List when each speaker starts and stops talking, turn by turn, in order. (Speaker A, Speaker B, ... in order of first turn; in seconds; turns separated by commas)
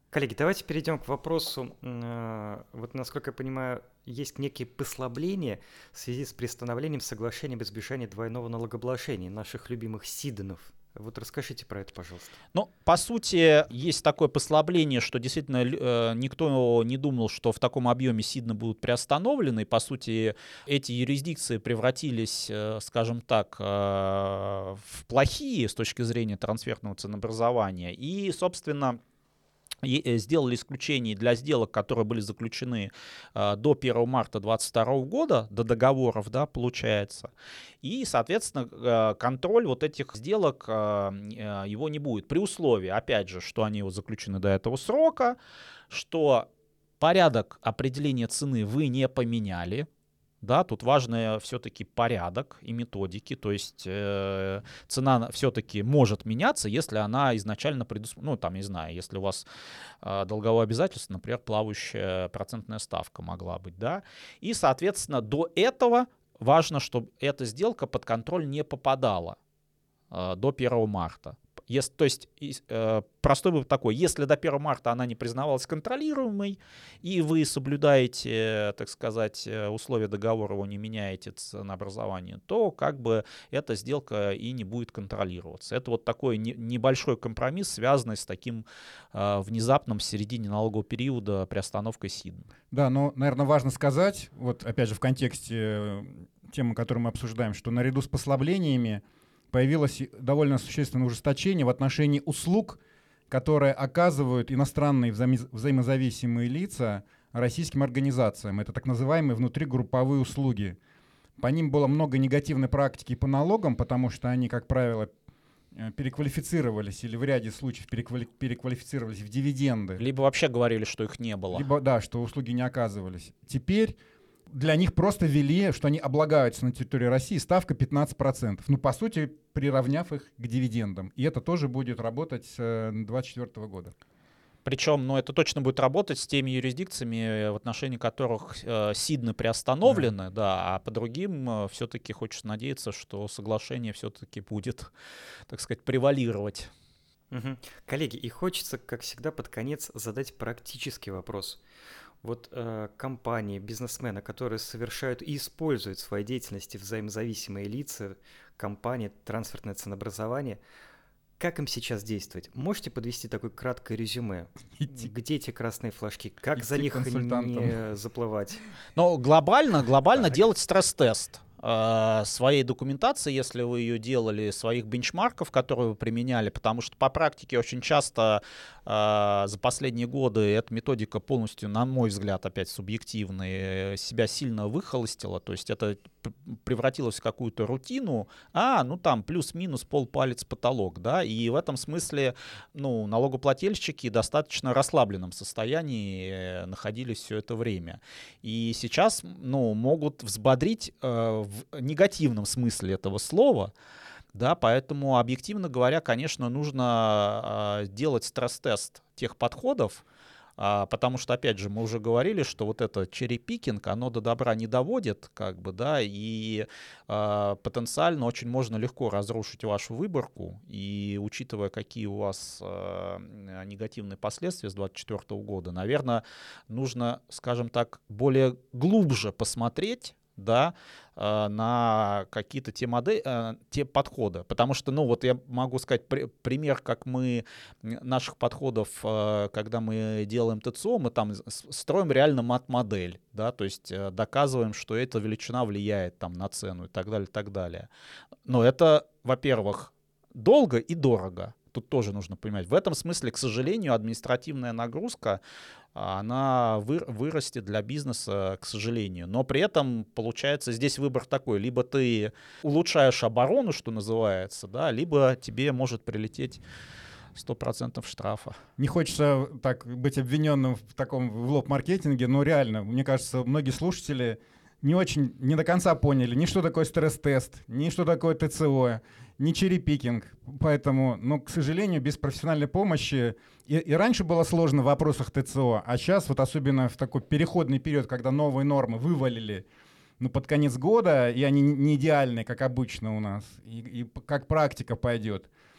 Speaker A: 0.1-12.4, Speaker B: 12.5-29.0, Speaker B: 29.8-37.3, Speaker B: 37.8-45.4, Speaker B: 45.9-46.5, Speaker B: 47.0-49.9, Speaker B: 50.4-59.4, Speaker B: 60.0-69.4, Speaker B: 70.1-92.5, Speaker C: 92.7-110.8, Speaker C: 111.4-115.1, Speaker C: 115.7-120.0, Speaker B: 120.0-121.7, Speaker C: 121.5-124.0, Speaker C: 124.5-133.9, Speaker B: 134.7-144.9, Speaker C: 139.9-140.1, Speaker B: 145.5-146.7, Speaker A: 147.3-151.6, Speaker A: 152.2-160.6, Speaker A: 161.4-168.6, Speaker C: 166.6-167.7, Speaker B: 169.0-203.7, Speaker B: 204.3-210.0, Speaker B: 210.6-247.9, Speaker B: 248.5-255.4, Speaker B: 255.9-266.6, Speaker B: 267.4-268.6, Speaker C: 268.8-289.6, Speaker C: 290.2-295.5